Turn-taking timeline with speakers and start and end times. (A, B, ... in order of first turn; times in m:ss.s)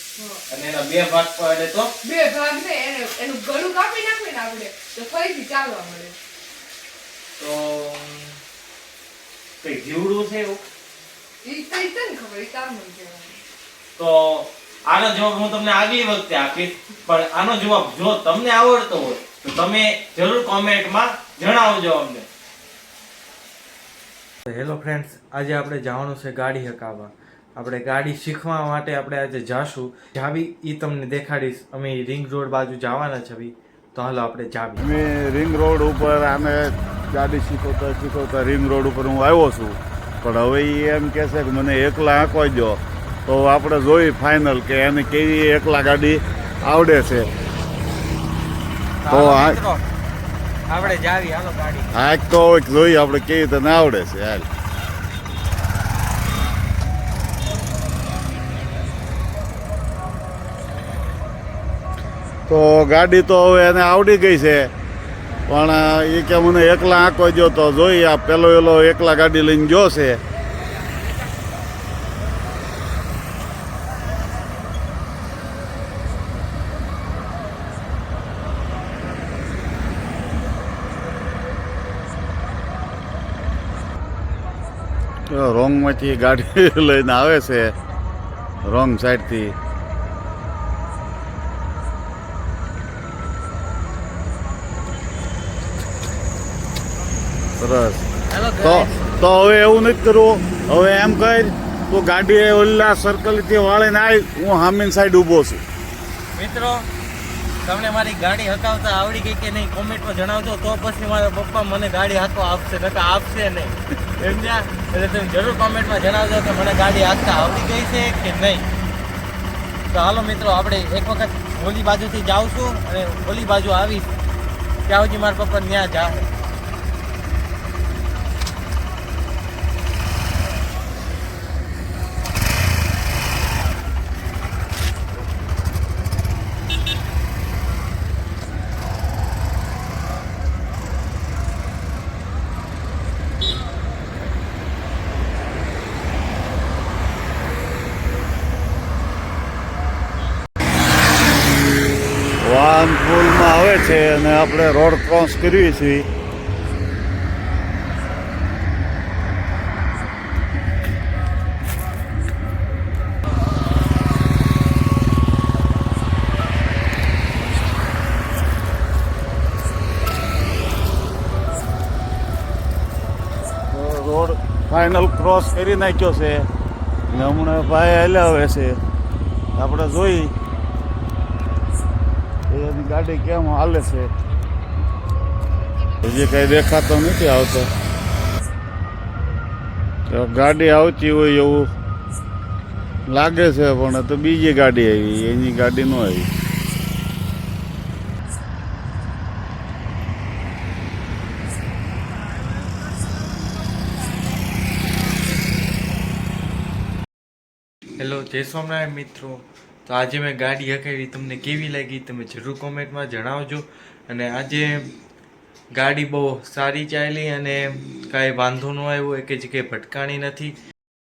0:00.2-0:00.4 A
0:00.5-0:01.9 B
0:02.0-0:06.2 A
0:07.4-0:08.4 B
0:09.6-0:10.6 B
0:11.4-0:13.4 A
0:14.0-0:22.3 B
0:24.5-0:34.9 B
0:34.8-0:47.3 C
0:49.0-0:49.9 B
0:49.1-0:49.6 C
0:50.7-0:52.0 B
0:51.9-0:54.5 C
1:02.5-1:04.7 C
1:05.5-1:10.2 C
1:25.3-1:27.8 C
1:28.6-1:29.6 C
1:37.6-1:38.1 C
1:38.3-1:39.0 B
1:38.6-1:45.6 C
1:46.3-1:46.9 B
1:47.6-1:58.7 B
1:59.9-2:04.1 B
2:04.9-2:06.3 B
2:32.4-2:36.1 C
2:53.7-2:56.5 C
2:57.1-2:58.8 C
2:59.6-3:00.3 C
3:02.5-3:04.1 C
3:06.0-3:07.7 C
3:10.1-3:11.7 C
3:13.1-3:16.3 C
3:28.0-3:34.9 B
3:35.7-3:40.6 B